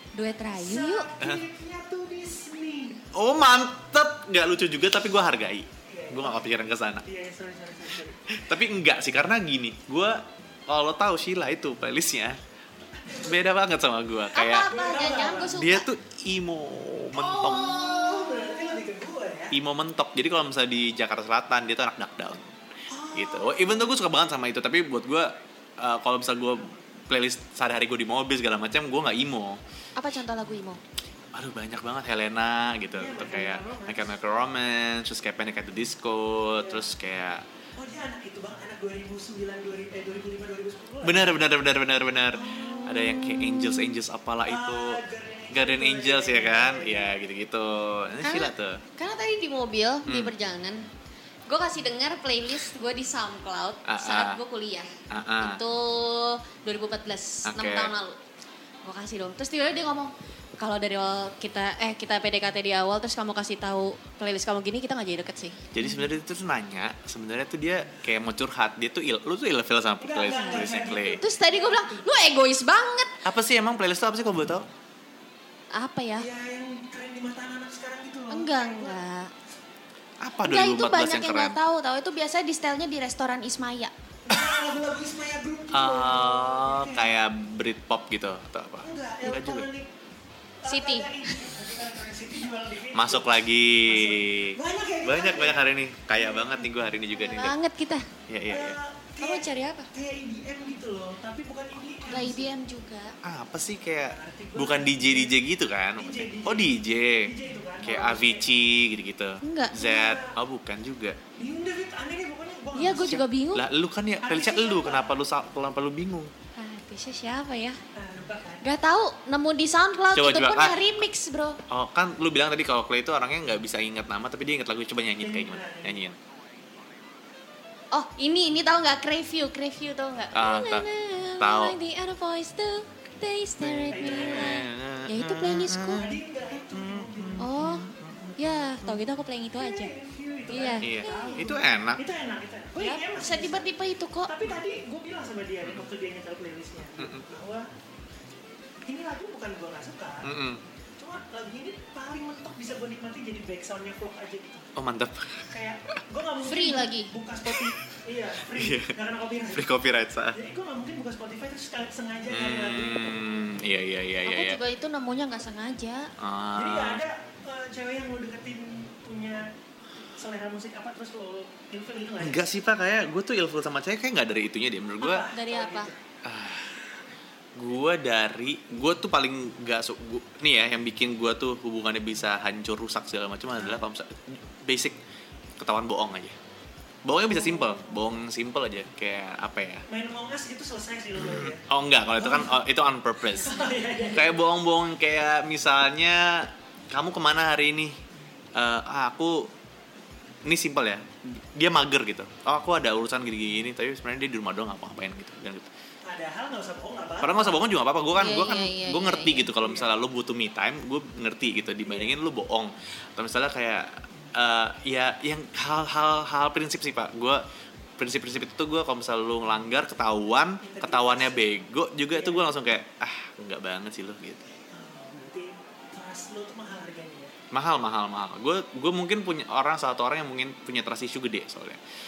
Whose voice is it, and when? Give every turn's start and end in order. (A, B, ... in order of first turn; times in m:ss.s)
0:00.1-0:01.1 A
0:00.5-0:03.1 B
0:03.1-0:07.0 C
0:05.9-0:06.4 B
0:07.0-0:08.2 B
0:08.3-0:12.4 C
0:13.0-0:13.4 B
0:13.1-0:14.7 C
0:14.3-0:15.9 A
0:14.6-0:15.6 B
0:15.5-0:17.8 C
0:17.2-0:19.6 B
0:17.2-0:18.7 A
0:19.5-0:22.5 C
0:22.9-0:24.0 B
0:23.1-0:29.6 C
0:30.0-0:30.8 A
0:31.3-0:37.4 C
0:33.0-0:34.1 B
0:36.6-0:36.8 B
0:37.8-0:41.4 B
0:41.0-0:48.8 C
0:42.3-0:42.8 B
0:42.4-0:44.0 A
0:44.4-0:47.2 B
0:48.2-0:50.8 A
0:50.0-0:50.3 C
0:51.5-0:58.2 A
0:53.8-0:54.4 C
0:55.1-0:55.6 C
0:57.4-0:57.9 C
0:58.8-1:05.8 A
1:05.7-1:11.2 C
1:10.0-1:12.1 B
1:10.3-1:13.1 A
1:13.2-1:14.7 C
1:15.7-1:16.3 A
1:16.2-1:19.0 B
1:18.3-1:19.3 A
1:20.2-1:21.6 C
1:20.4-1:23.9 A
1:24.2-1:27.1 B
1:25.7-1:29.7 C
1:28.8-1:29.9 B
1:30.6-1:36.7 B
1:30.6-1:31.3 A
1:32.9-1:37.6 C
1:37.2-1:38.1 A
1:38.3-1:38.8 C
1:38.5-1:42.5 B
1:39.2-1:39.9 A
1:42.1-1:43.1 A
1:43.2-1:51.2 C
1:44.1-1:45.4 B
1:46.0-1:48.5 B
1:49.4-1:49.8 A
1:49.7-1:50.4 B
1:51.4-1:53.2 B
1:52.8-1:53.6 A
1:53.1-1:56.3 C
1:54.2-1:55.2 B
1:56.6-1:57.8 A
1:57.9-1:58.7 B
1:58.6-2:01.6 A
2:00.1-2:00.9 C
2:01.7-2:06.2 C
2:05.2-2:06.1 B
2:07.9-2:16.1 A
2:10.3-2:10.9 C
2:11.4-2:11.8 C
2:13.6-2:19.0 C
2:13.9-2:14.6 B
2:15.9-2:17.6 B
2:17.4-2:19.9 A
2:19.6-2:23.7 B
2:20.5-2:21.5 A
2:20.8-2:22.0 C
2:22.8-2:24.3 A
2:24.2-2:27.7 B
2:27.0-2:27.2 C
2:28.9-2:30.3 B
2:30.2-2:30.6 C
2:31.0-2:34.7 B
2:34.8-2:35.5 C
2:35.5-2:39.7 B
2:36.4-2:37.1 A
2:38.5-2:39.0 C
2:39.5-2:40.4 C
2:40.3-2:43.5 B
2:42.3-2:44.6 C
2:44.2-2:46.1 A
2:46.2-2:47.0 C
2:46.5-2:49.4 B
2:50.2-2:52.4 B
2:52.2-2:55.2 C
2:55.0-2:56.0 B
2:55.3-2:55.9 A
2:56.2-2:57.0 C
2:57.5-3:05.0 C
3:05.6-3:06.4 C
3:07.0-3:09.8 C
3:07.3-3:08.0 B
3:09.9-3:11.6 B
3:11.2-3:18.0 C
3:12.2-3:12.6 B
3:13.4-3:14.4 B
3:18.5-3:19.5 C
3:20.4-3:25.7 C
3:26.0-3:27.6 B
3:27.2-3:37.4 C
3:28.1-3:29.5 A
3:29.6-3:29.9 B
3:31.8-3:32.1 B
3:38.0-3:44.5 C
3:40.6-3:41.6 B
3:42.1-3:42.5 B
3:44.7-3:47.3 B
3:47.5-3:51.8 C